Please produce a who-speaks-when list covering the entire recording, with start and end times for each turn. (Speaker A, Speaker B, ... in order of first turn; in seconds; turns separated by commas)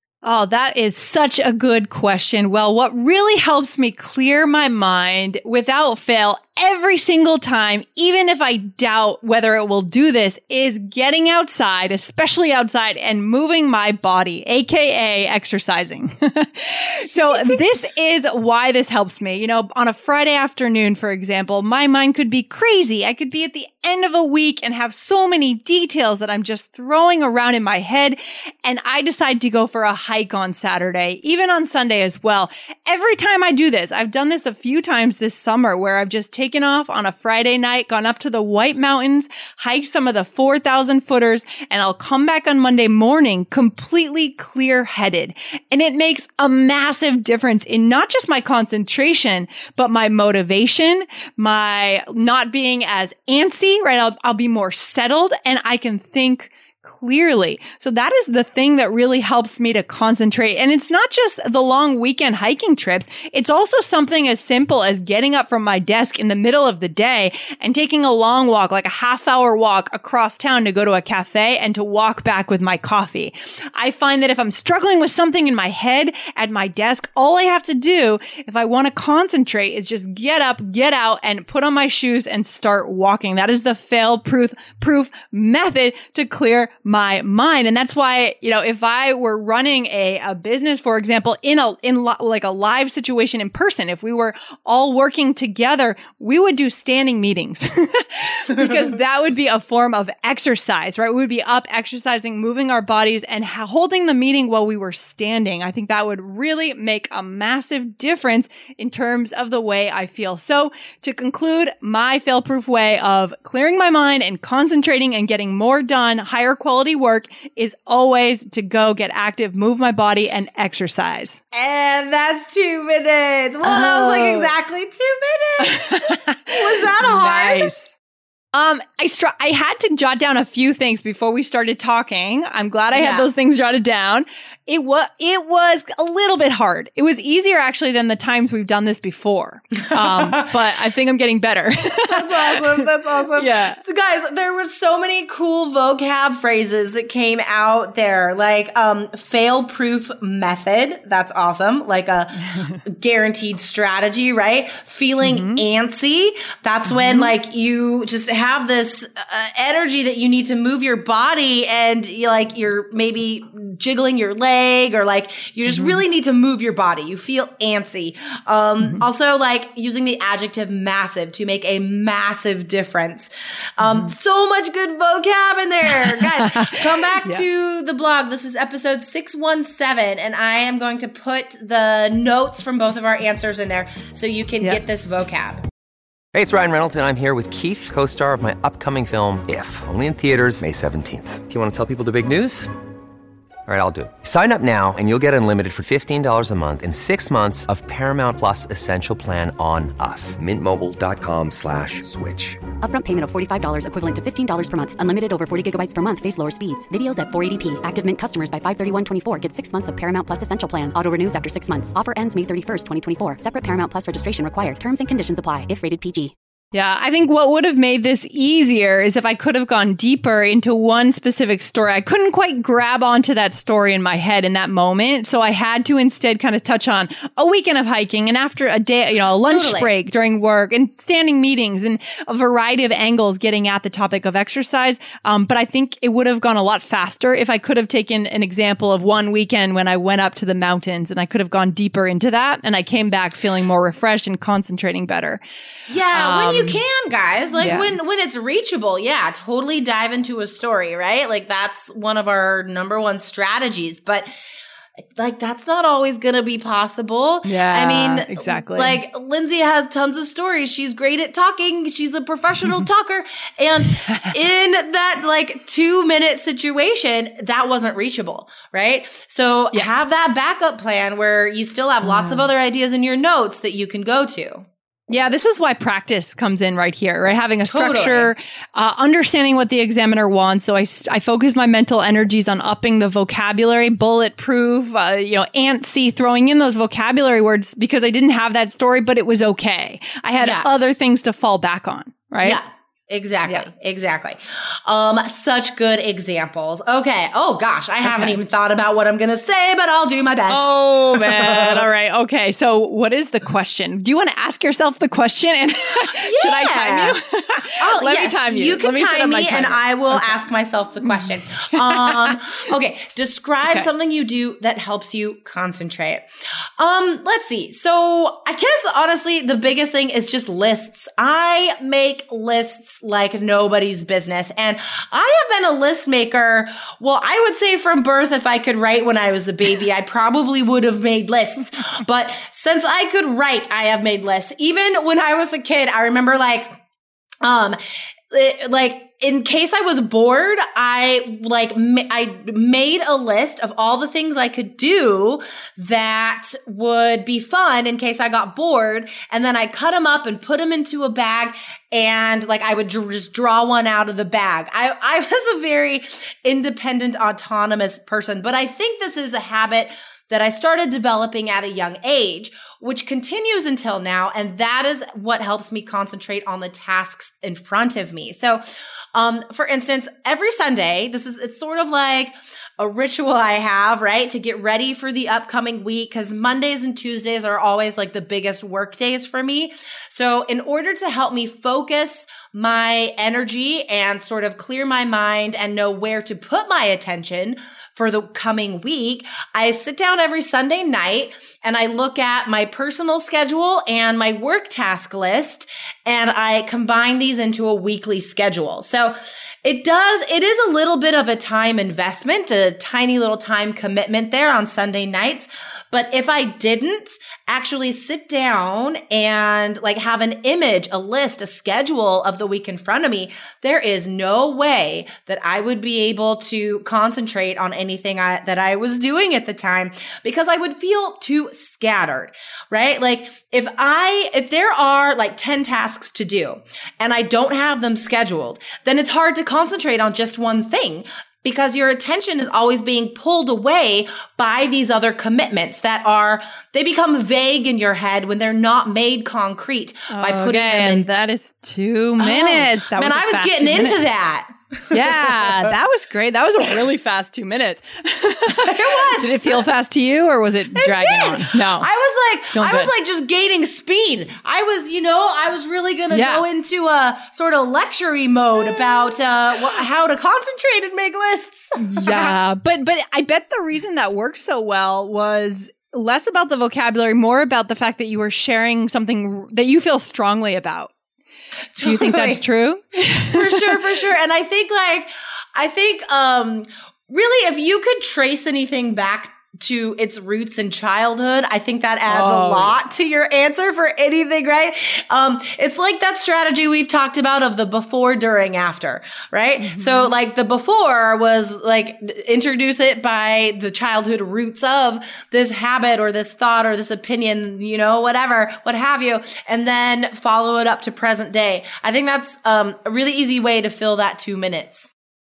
Speaker A: 0.2-121.4, Speaker B: 17.3-17.6, Speaker B: 121.5-127.7, Speaker A: 123.6-124.5, Speaker A: 125.6-128.0, Speaker A: 128.5-143.8, Speaker B: 132.9-133.3, Speaker B: 140.1-140.5, Speaker B: 142.1-185.6, Speaker A: 155.2-155.6, Speaker A: 156.9-157.3, Speaker A: 165.7-166.0, Speaker A: 173.8-174.1, Speaker A: 176.0-176.7, Speaker C: 186.3-192.7, Speaker C: 193.7-202.7, Speaker D: 202.8-216.3, Speaker A: 216.7-245.4, Speaker B: 229.5-229.9, Speaker B: 245.9-254.3, Speaker A: 246.1-246.8, Speaker A: 247.6-248.0, Speaker B: 255.2-274.6, Speaker A: 257.4-259.0, Speaker A: 272.0-272.5, Speaker A: 275.1-292.6, Speaker B: 277.7-278.3, Speaker B: 290.4-290.6, Speaker B: 292.4-301.8, Speaker A: 298.1-298.4, Speaker A: 300.5-310.5, Speaker B: 306.2-307.1, Speaker B: 307.8-316.2, Speaker A: 311.0-312.4, Speaker B: 316.8-336.7, Speaker B: 337.4-337.8, Speaker B: 338.3-368.6, Speaker B: 369.1-441.1, Speaker A: 440.1-444.0, Speaker B: 442.2-445.2, Speaker A: 444.9-451.9, Speaker B: 448.6-449.6, Speaker B: 450.8-462.4, Speaker A: 452.5-452.9, Speaker A: 456.1-456.4, Speaker A: 461.8-470.9, Speaker B: 471.8-472.4, Speaker A: 471.8-473.9, Speaker B: 473.3-504.9, Speaker A: 482.1-482.8, Speaker A: 489.6-490.1